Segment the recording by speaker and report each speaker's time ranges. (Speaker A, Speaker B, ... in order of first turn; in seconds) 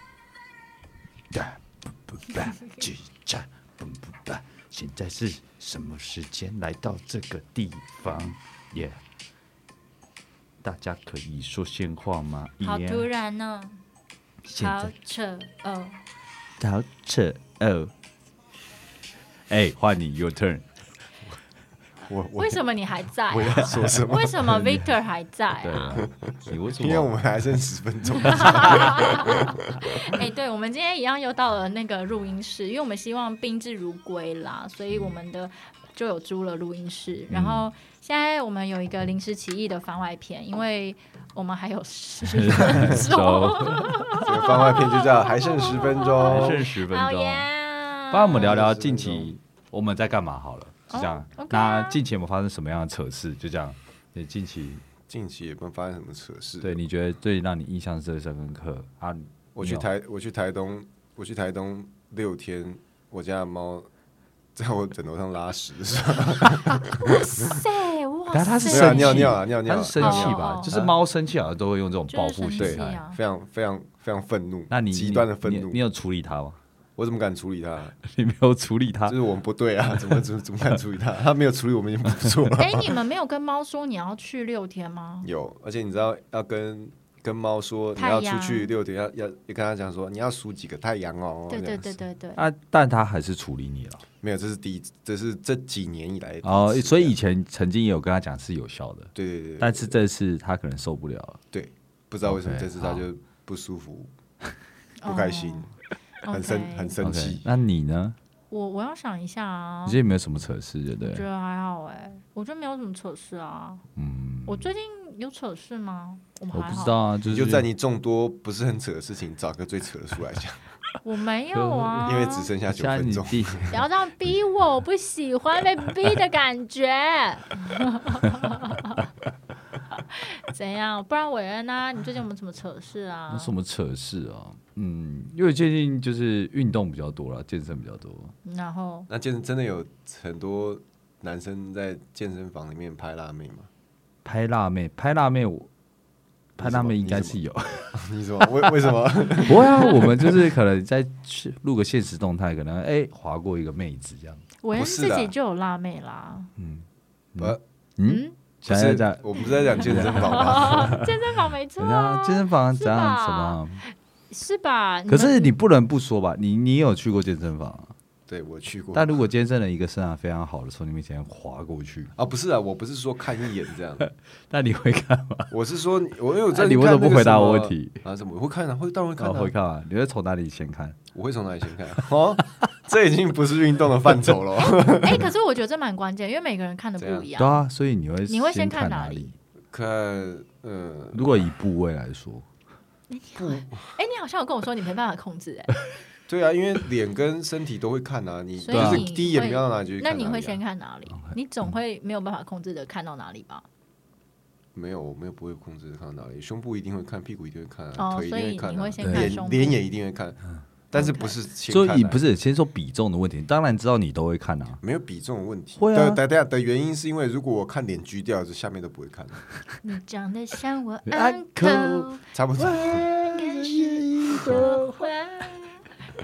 Speaker A: 1.3-9.0, 10.6-13.1, 14.4-14.9, 16.6-17.9, 19.5-20.6, 25.6-27.1, 37.3-37.6, 42.3-43.9, 46.2-47.5, 48.1-54.8, 56.6-59.9, 68.3-73.0, 74.7-76.6, 78.0-79.2, 92.3-94.0, 96.4-101.4, 102.2-103.0, 107.0-108.2, 109.8-111.2, 114.0-114.7, 116.5-117.7, 121.5-123.8, 133.3-138.3, 144.2-145.7, 146.6-148.0, 149.4-154.4, 156.6-161.1, 161.8-163.8, 165.1-167.9, 168.9-172.1, 174.0-175.5, 176.5-178.0, 179.2-181.0, 187.4-189.3, 191.1-192.4, 198.7-199.1, 209.0-209.3, 211.7-214.8, 215.8-216.2, 221.1-225.1
Speaker B: 2.3-2.8, 12.6-13.8, 14.6-16.0, 22.4-26.0, 28.2-48.5, 50.9-52.0, 66.7-69.4, 70.0-70.8, 72.1-73.2, 82.6-85.3, 88.0-88.7, 91.5-92.4, 105.0-105.7, 106.2-107.0, 108.5-110.0, 111.0-113.8, 114.5-117.0, 121.0-122.5, 123.7-129.0, 129.9-133.5, 138.4-139.1, 154.6-156.5, 158.1-158.3, 159.4-165.5, 184.6-187.7, 188.3-189.3, 193.1-195.8, 198.6-203.6, 207.9-209.8, 210.9-211.4, 219.8-225.9
Speaker C: 22.0-22.6, 23.3-24.7, 26.0-29.7, 44.2-46.6, 48.3-49.3, 55.1-56.8, 59.5-63.9, 64.5-67.0, 68.7-70.9, 72.6-75.8, 77.0-78.0, 79.1-83.0, 85.2-91.9, 94.2-97.2, 99.1-99.9, 101.5-104.1, 105.0-105.7, 106.3-107.5, 117.2-120.6, 122.0-123.7, 139.1-143.7, 146.6-147.4, 147.9-150.3, 154.7-155.3, 158.6-161.0, 168.3-169.2, 172.2-174.1, 175.5-179.5, 181.1-185.3, 187.0-187.3, 189.7-191.5, 193.3-193.9, 196.3-200.6, 204.7-212.2, 214.8-219.4, 222.3-223.1